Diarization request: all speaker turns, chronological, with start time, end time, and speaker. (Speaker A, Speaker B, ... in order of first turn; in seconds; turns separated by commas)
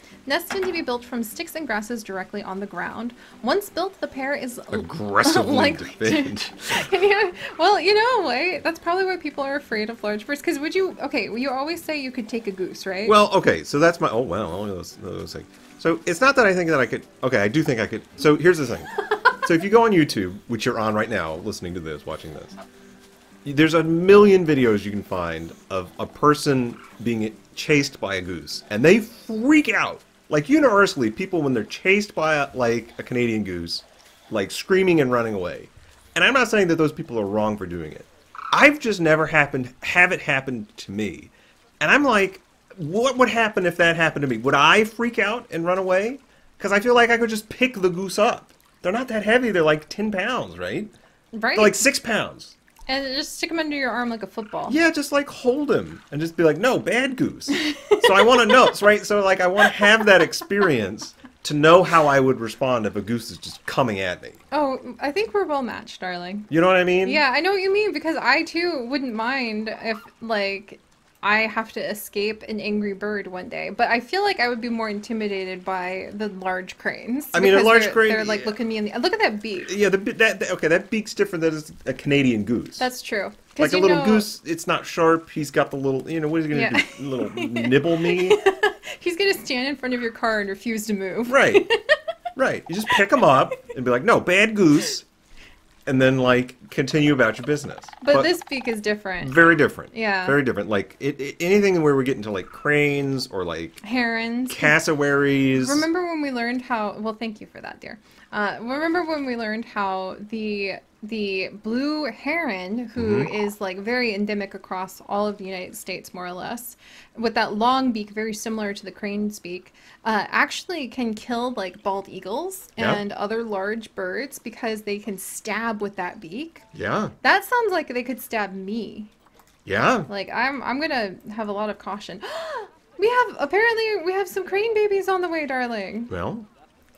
Speaker A: 0.2-13.2, Speaker B: 4.7-6.9, Speaker B: 13.0-22.6, Speaker B: 23.4-50.9, Speaker A: 51.3-51.8, Speaker B: 51.5-52.6, Speaker A: 52.9-54.8, Speaker B: 54.7-64.4, Speaker A: 57.5-58.7, Speaker A: 59.8-60.1, Speaker A: 64.5-66.5, Speaker B: 66.5-67.2, Speaker A: 67.0-79.7, Speaker B: 77.3-78.5, Speaker B: 79.7-82.9, Speaker A: 82.8-84.3, Speaker B: 83.6-88.4, Speaker A: 86.5-91.9, Speaker B: 91.2-91.7, Speaker B: 92.3-95.0, Speaker B: 95.8-98.3, Speaker A: 98.0-100.4, Speaker B: 99.2-103.8, Speaker A: 103.8-104.7, Speaker B: 104.5-105.8, Speaker A: 105.6-126.7, Speaker B: 113.0-113.3, Speaker B: 122.8-123.0, Speaker B: 126.7-127.1, Speaker A: 127.2-129.1, Speaker B: 129.7-130.1, Speaker A: 130.1-136.1, Speaker B: 136.1-136.5